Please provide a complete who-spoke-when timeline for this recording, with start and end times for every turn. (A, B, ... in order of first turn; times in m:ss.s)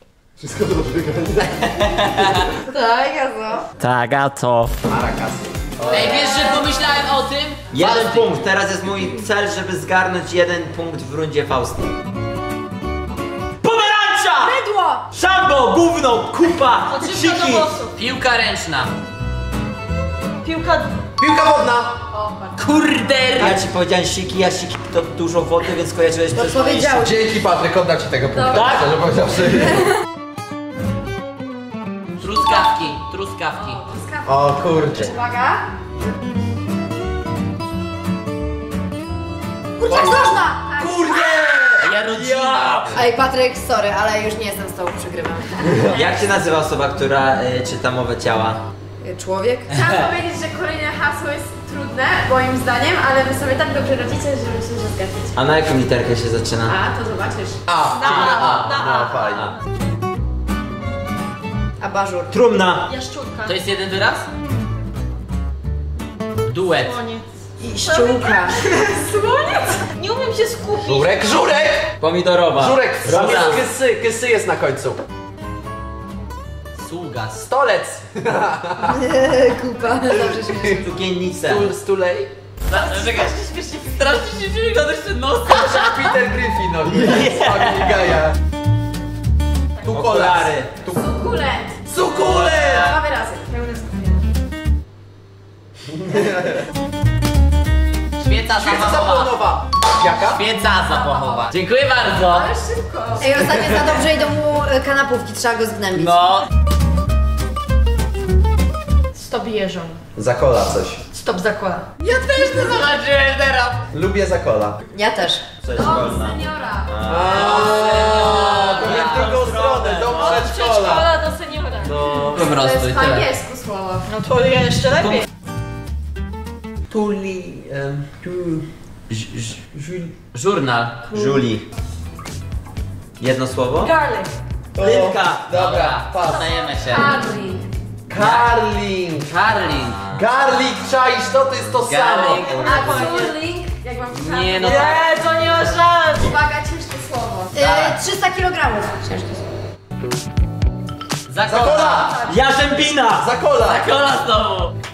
0:00.4-0:02.4 A
0:02.6-0:03.7 B
0:03.8-0:04.7 C
0:04.8-0:06.2 A
0:05.8-0:06.3 C
0:05.9-0:06.8 B
0:05.9-0:08.3 D
0:07.7-0:11.9 C
0:13.6-0:14.6 C
0:14.4-0:15.1 B
0:15.1-0:17.7 C
0:16.9-0:18.0 E
0:18.0-0:18.9 D
0:20.4-0:21.0 E
0:21.2-0:22.0 A
0:22.1-0:22.6 F
0:22.6-0:23.6 D
0:23.4-0:27.0 C
0:26.4-0:27.2 B
0:27.0-0:29.8 A
0:28.3-0:28.8 F
0:28.5-0:28.9 C
0:32.2-0:33.8 D
0:33.9-0:35.7 B
0:34.2-0:35.1 A
0:39.8-0:41.5 B
0:39.9-0:40.3 A
0:40.8-0:43.0 C
0:41.8-0:43.0 D
0:42.9-0:45.9 B
0:45.7-0:45.9 A
0:45.8-0:48.6 C
0:49.0-0:49.9 B
0:49.7-0:55.3 F
0:55.4-0:56.8 C
0:56.6-0:57.6 F
0:57.7-0:59.5 A
0:57.9-0:59.5 E
0:58.0-0:58.7 D
1:01.8-1:02.3 B
1:02.3-1:02.9 C
1:02.9-1:03.6 E
1:03.4-1:04.3 D
1:06.5-1:07.0 D
1:06.7-1:07.2 E
1:07.6-1:08.6 B
1:07.8-1:11.3 E
1:09.1-1:09.7 F
1:10.8-1:12.0 A
1:12.0-1:13.6 C
1:12.6-1:15.0 A
1:13.0-1:13.6 D
1:16.8-1:17.4 D
1:17.4-1:19.0 A
1:18.8-1:20.9 B
1:20.7-1:21.7 C
1:21.4-1:22.3 A
1:22.7-1:23.4 D
1:22.7-1:24.2 E
1:23.9-1:26.2 D
1:25.5-1:28.4 A
1:27.0-1:28.0 C
1:29.8-1:31.0 A
1:29.9-1:30.7 C
1:30.9-1:31.8 F
1:31.8-1:33.0 A
1:32.2-1:32.9 D
1:32.4-1:33.5 F
1:33.5-1:34.2 E
1:35.9-1:36.6 A
1:38.2-1:39.4 D
1:38.5-1:40.4 A
1:40.2-1:42.5 D
1:40.9-1:41.5 F
1:42.2-1:43.4 F
1:43.2-1:46.2 B
1:43.4-1:43.8 A
1:45.9-1:46.5 D
1:49.1-1:50.0 E
1:50.1-1:51.0 A
1:51.1-1:51.9 E
1:52.0-1:53.8 D
1:53.9-1:54.8 A
1:54.9-1:56.0 B
1:55.6-1:57.7 C
1:55.8-1:57.0 F
1:57.0-2:01.1 A
1:57.1-1:59.3 D
1:58.4-2:00.5 C
2:00.1-2:01.9 E
2:01.8-2:03.3 D
2:02.4-2:04.1 F
2:04.0-2:05.2 E
2:06.9-2:08.6 C
2:09.1-2:09.6 D
2:09.8-2:10.1 C
2:10.3-2:11.0 D
2:11.1-2:11.6 C
2:13.2-2:13.9 C
2:13.8-2:14.3 E
2:14.7-2:16.5 A
2:14.8-2:15.4 C
2:15.5-2:17.2 D
2:16.2-2:17.6 F
2:18.1-2:19.3 A
2:18.2-2:18.5 D
2:19.2-2:20.2 D
2:20.1-2:22.8 A
2:21.8-2:22.9 D
2:22.2-2:23.4 E
2:22.5-2:24.8 F
2:24.1-2:25.1 D
2:24.6-2:26.4 E
2:26.2-2:27.5 F
2:27.5-2:29.4 B
2:27.6-2:28.0 D
2:31.3-2:32.2 D
2:31.4-2:32.3 A
2:32.0-2:32.3 F
2:32.3-2:33.3 C
2:33.0-2:33.9 A
2:33.6-2:34.7 D